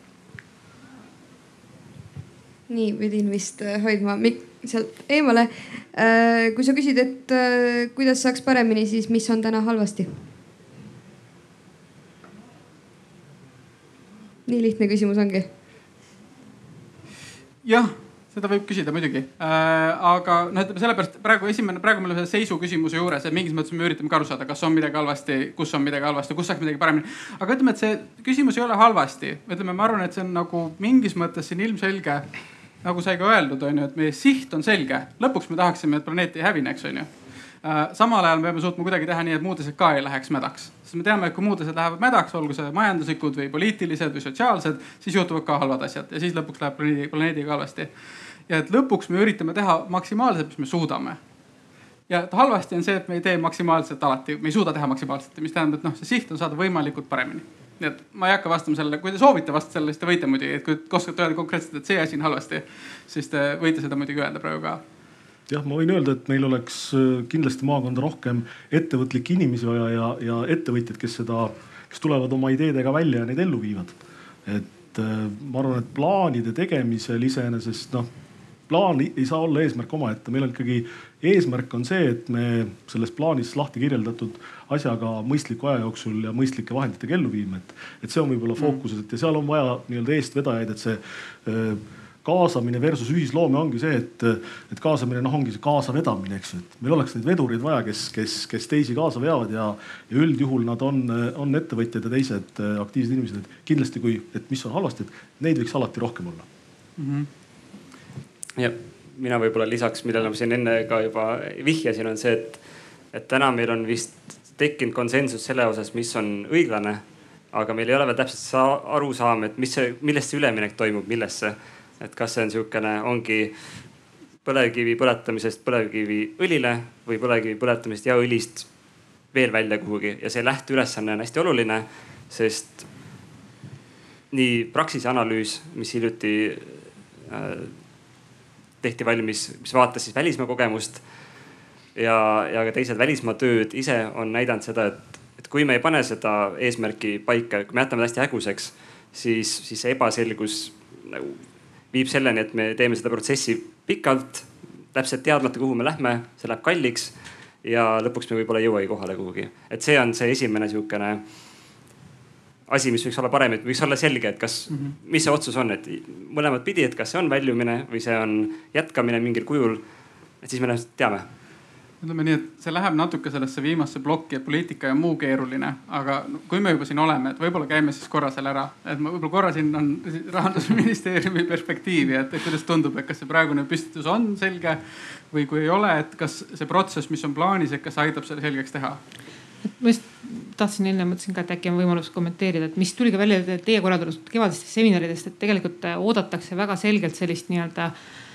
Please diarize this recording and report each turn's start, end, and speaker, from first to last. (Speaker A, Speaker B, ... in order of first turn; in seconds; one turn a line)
Speaker A: 2.7-10.3
Speaker A: 14.5-15.5
Speaker B: 17.6-47.9
Speaker B: 48.5-51.2
Speaker B: 52.1-64.8
Speaker C: 65.5-78.1
Speaker C: 78.7-106.5
Speaker B: 107.0-107.3
Speaker D: 108.6-112.6
Speaker D: 113.1-123.6
Speaker D: 124.5-128.7
Speaker D: 129.3-132.9
Speaker D: 134.3-137.8
Speaker D: 138.8-141.0
Speaker D: 141.9-161.2
Speaker D: 162.7-169.8
Speaker B: 164.7-165.0
Speaker D: 170.4-171.3
Speaker B: 172.0-189.0
Speaker E: 189.8-197.9